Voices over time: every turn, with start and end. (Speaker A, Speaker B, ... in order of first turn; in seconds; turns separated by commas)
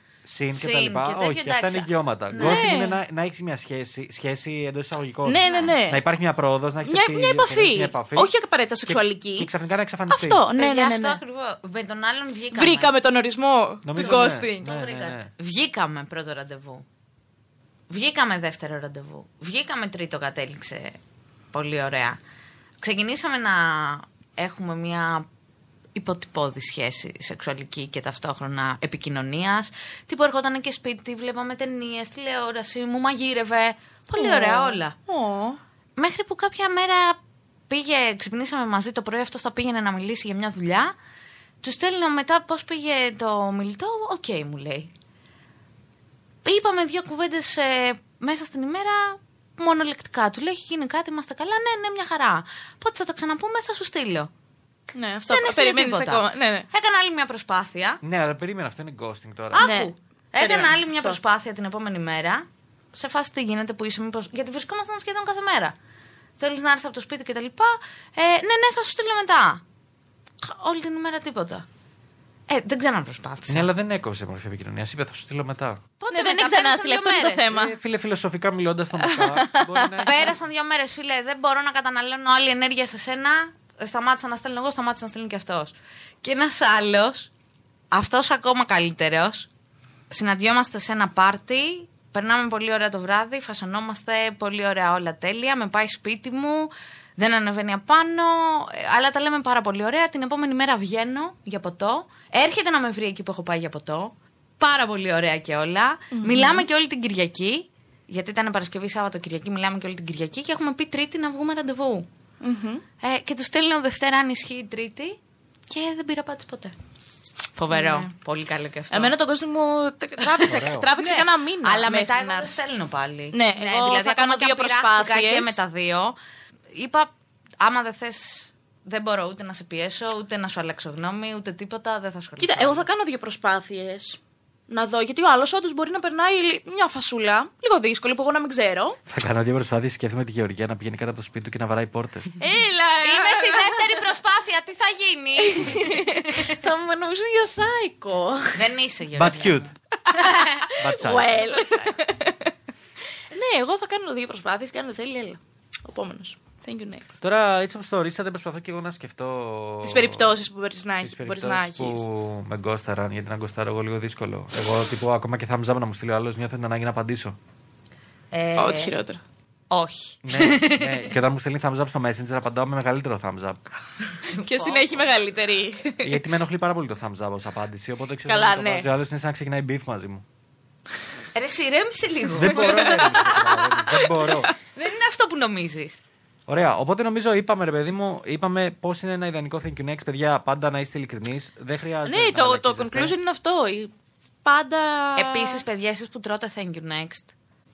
Speaker A: 0.2-8.3, Speaker B: 0.5-2.7, Speaker C: 2.4-3.0, Speaker C: 5.2-6.0, Speaker B: 5.4-5.8, Speaker C: 6.8-9.5, Speaker A: 8.9-10.4, Speaker C: 10.1-11.2, Speaker B: 10.6-12.9, Speaker C: 12.5-14.7, Speaker A: 13.8-15.3, Speaker B: 13.9-16.9, Speaker B: 17.9-21.0, Speaker B: 21.5-22.2, Speaker B: 22.8-25.3, Speaker B: 25.9-35.0, Speaker C: 34.2-35.6, Speaker B: 36.0-37.2, Speaker B: 37.7-41.0, Speaker B: 41.6-44.9, Speaker B: 46.4-54.3, Speaker C: 54.9-56.7, Speaker B: 55.3-58.0, Speaker A: 58.0-59.7, Speaker B: 59.5-65.8, Speaker C: 59.6-61.2, Speaker B: 66.4-69.6, Speaker B: 70.4-71.7, Speaker B: 72.5-73.7, Speaker A: 73.5-75.8, Speaker B: 76.0-77.5, Speaker C: 76.1-77.8, Speaker A: 77.5-80.3, Speaker C: 79.1-79.9, Speaker B: 80.0-87.3, Speaker B: 87.9-89.5, Speaker B: 90.1-112.1, Speaker C: 106.1-106.7, Speaker C: 112.4-112.8, Speaker B: 113.0-115.2, Speaker B: 115.7-116.8, Speaker B: 117.6-119.2, Speaker C: 117.7-118.1, Speaker C: 118.9-122.6, Speaker A: 120.4-120.9, Speaker B: 121.0-126.2, Speaker C: 123.3-125.6, Speaker B: 126.7-132.8, Speaker C: 132.4-139.0, Speaker A: 139.1-142.3, Speaker C: 142.4-144.0, Speaker B: 143.0-146.6, Speaker C: 145.4-148.7, Speaker B: 148.6-150.6, Speaker A: 149.1-149.7, Speaker C: 150.1-152.5, Speaker A: 150.8-151.6, Speaker C: 153.3-157.1, Speaker A: 157.2-160.3, Speaker C: 159.8-162.0, Speaker A: 161.0-167.4, Speaker B: 168.3-168.9, Speaker C: 168.6-169.2, Speaker B: 169.7-171.1, Speaker A: 170.2-173.6, Speaker B: 174.1-175.1, Speaker C: 174.3-176.2, Speaker A: 176.0-180.2, Speaker C: 178.2-178.9, Speaker B: 181.3-184.0, Speaker A: 182.3-184.5, Speaker C: 182.4-184.5, Speaker B: 184.6-186.0, Speaker A: 186.5-193.2, Speaker C: 192.1-193.9, Speaker C: 194.4-195.6, Speaker B: 195.2-197.3